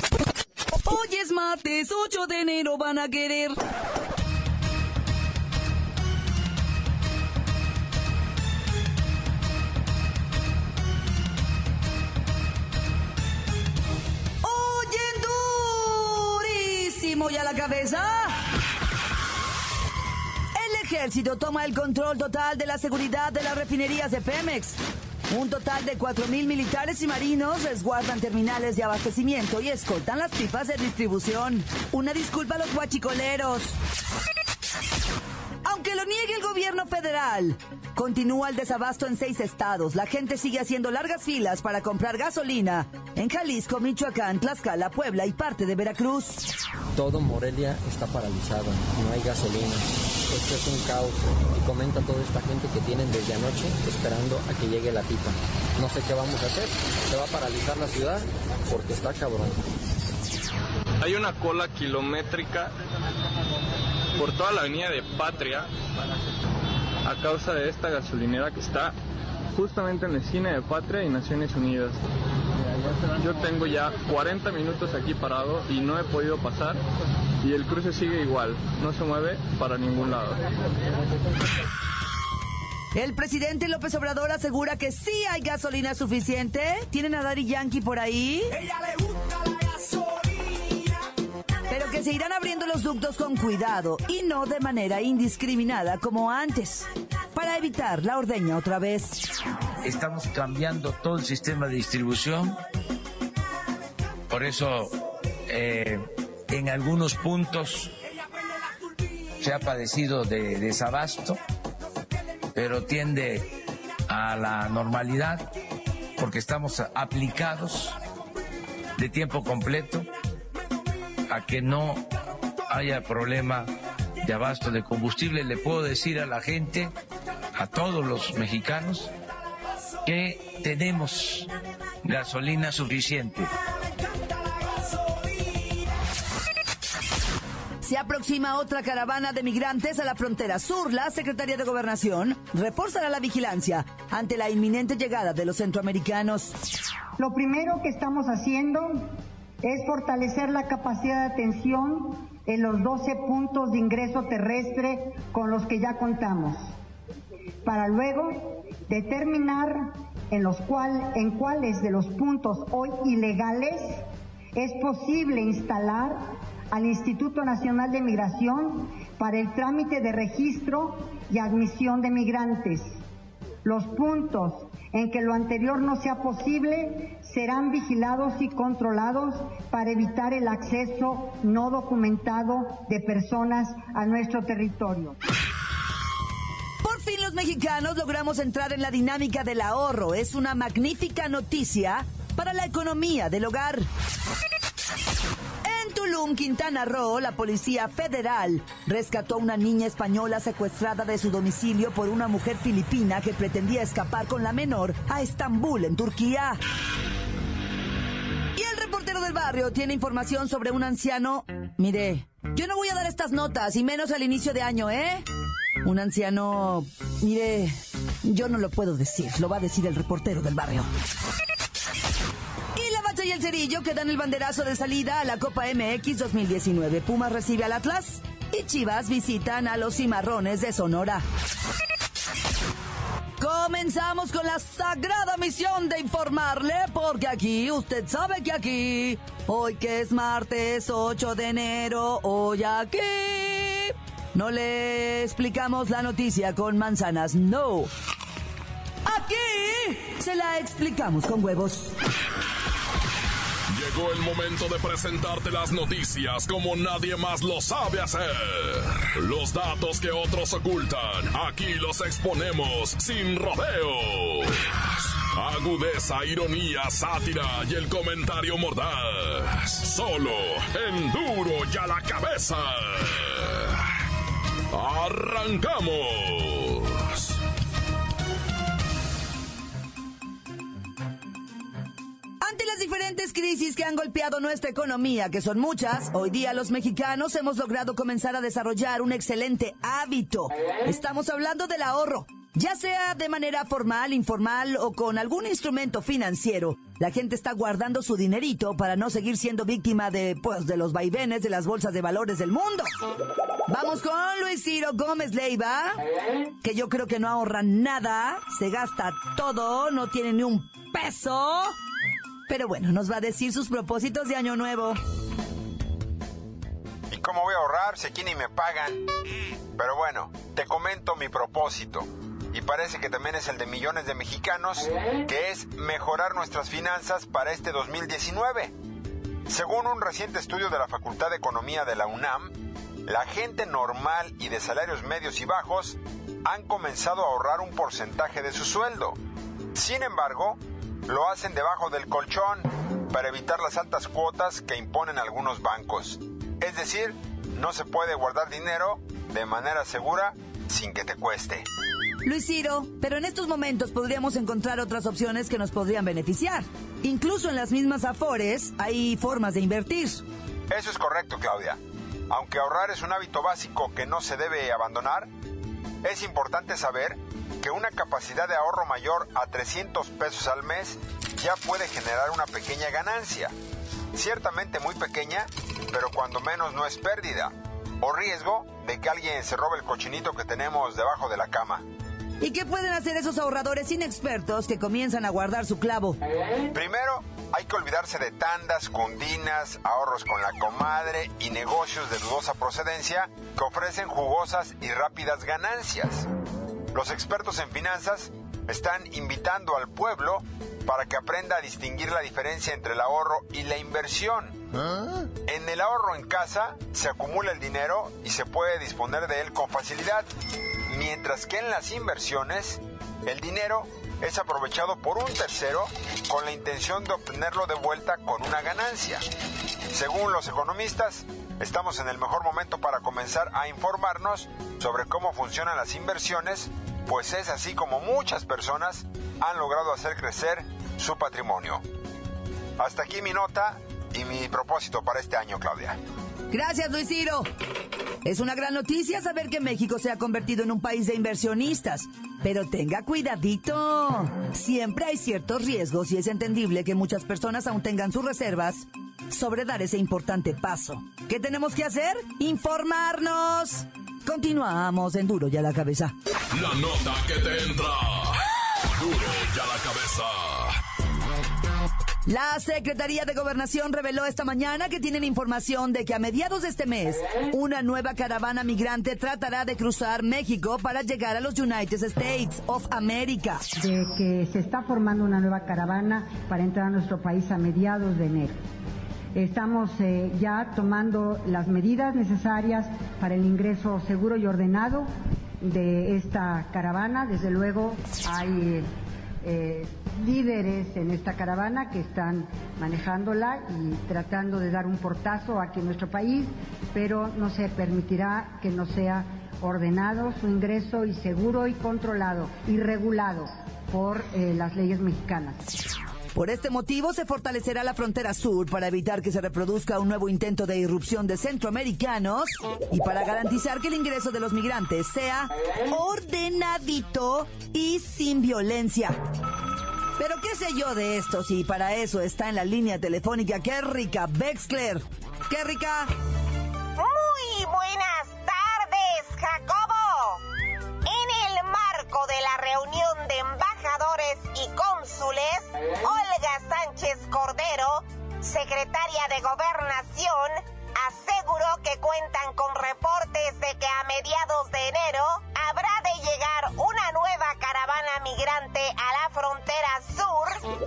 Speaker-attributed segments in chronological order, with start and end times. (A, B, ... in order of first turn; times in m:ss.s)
0:00.7-0:03.6 A
0:14.4-0:18.4 A
0:20.6-0:33.8 A
0:35.6-0:46.4 A
0:46.9-0:59.6 B
1:01.0-1:02.7 C
1:04.2-1:05.7 C
1:07.0-1:09.0 C
1:09.5-1:12.0 C
1:13.2-1:16.8 C
1:17.4-1:20.4 C
1:22.9-1:28.6 A
1:31.7-1:39.2 A
1:39.8-1:42.6 D
1:44.3-1:44.9 D
1:45.5-1:47.9 D
1:49.4-1:51.4 D
1:52.6-1:53.5 D
1:54.1-1:55.4 D
1:56.2-1:58.0 D
1:59.0-2:00.1 D
2:01.3-2:02.0 D
2:02.7-2:03.7 D
2:04.2-2:06.9 D
2:07.6-2:09.1 D
2:10.1-2:11.5 D
2:12.0-2:13.5 D
2:17.8-2:26.6 A
2:27.2-2:36.7 E
2:37.6-2:53.0 E
2:53.6-3:05.2 E
3:06.8-3:13.9 A
3:15.6-3:26.6 A
3:28.6-3:35.3 A
3:35.8-3:40.9 A
3:42.8-3:51.2 A
3:53.4-4:07.9 A
4:09.0-4:12.0 A
4:13.7-4:33.8 F
4:34.7-4:37.3 F
4:42.4-5:02.9 A
5:03.7-5:06.0 A
5:06.6-5:11.8 A
5:12.5-5:15.0 A
5:17.1-5:19.0 G
5:19.8-5:28.7 G
5:29.5-5:32.5 G
5:33.1-5:39.2 G
5:39.8-5:51.6 G
5:52.2-6:00.2 A
6:00.7-6:01.8 G
6:02.3-6:05.3 G
6:06.0-6:13.5 G
6:14.1-6:21.8 G
6:22.4-6:26.2 A
6:26.7-6:36.3 G
6:36.9-6:44.6 G
6:45.5-6:50.3 G
6:50.9-6:59.2 G
6:59.9-7:11.8 G
7:12.8-7:16.0 G
7:16.5-7:17.5 A
7:18.2-7:36.2 A
7:36.5-7:40.8 F
7:42.3-7:53.6 A
7:53.8-7:58.6 E
7:59.4-8:05.1 E
8:05.6-8:08.9 E
8:09.4-8:25.7 E
8:26.4-8:39.2 A
8:40.2-8:46.1 A
8:47.0-8:50.4 H
8:51.1-9:10.7 H